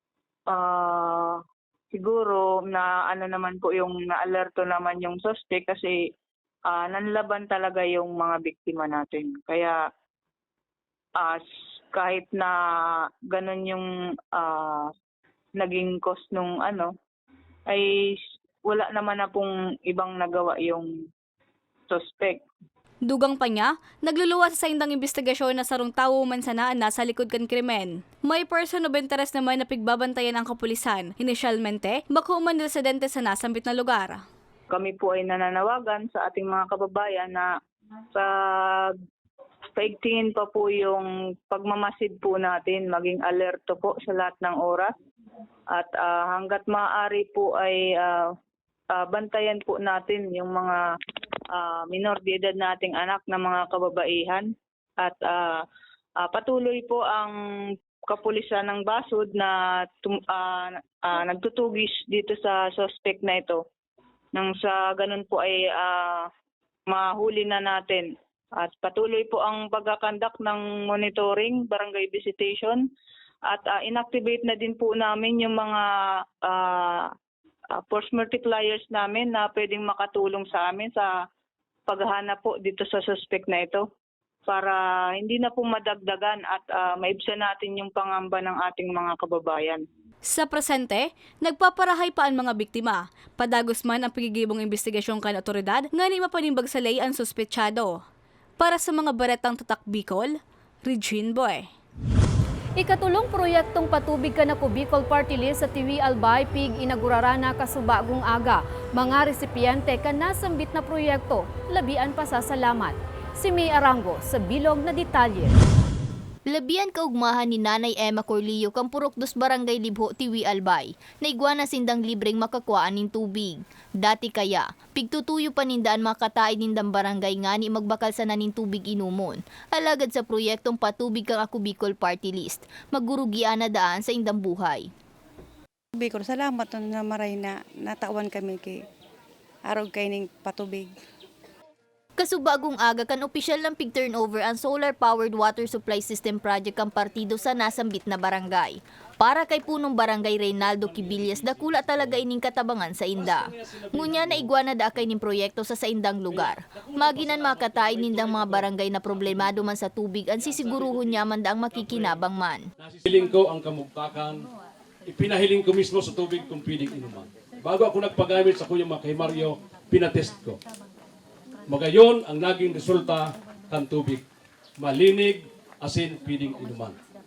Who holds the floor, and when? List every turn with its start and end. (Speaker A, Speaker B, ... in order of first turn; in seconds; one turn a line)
Speaker A: 0.5-6.1
Speaker A: 6.7-9.8
Speaker A: 11.2-14.9
Speaker A: 15.5-16.9
Speaker A: 17.7-21.1
Speaker A: 21.9-22.4
Speaker B: 23.1-34.2
Speaker A: 34.7-37.6
Speaker A: 38.1-39.0
Speaker A: 39.7-44.9
Speaker A: 45.7-48.3
Speaker A: 48.9-50.9
Speaker A: 51.5-55.6
Speaker A: 56.2-57.4
Speaker A: 58.1-63.6
Speaker A: 64.3-66.3
Speaker A: 66.9-72.9
Speaker A: 73.5-77.1
Speaker A: 77.7-81.2
Speaker A: 81.9-83.9
Speaker A: 84.5-89.8
Speaker B: 90.3-97.9
Speaker B: 98.6-101.6
Speaker C: 102.8-115.5
Speaker D: 116.5-134.9
Speaker E: 136.0-138.8
Speaker E: 139.7-140.9
Speaker D: 142.2-162.7
Speaker F: 153.2-154.5
Speaker F: 157.1-158.6
Speaker F: 161.7-162.1
Speaker F: 162.8-164.4
Speaker F: 165.1-170.6
Speaker F: 171.7-174.2
Speaker F: 174.8-177.0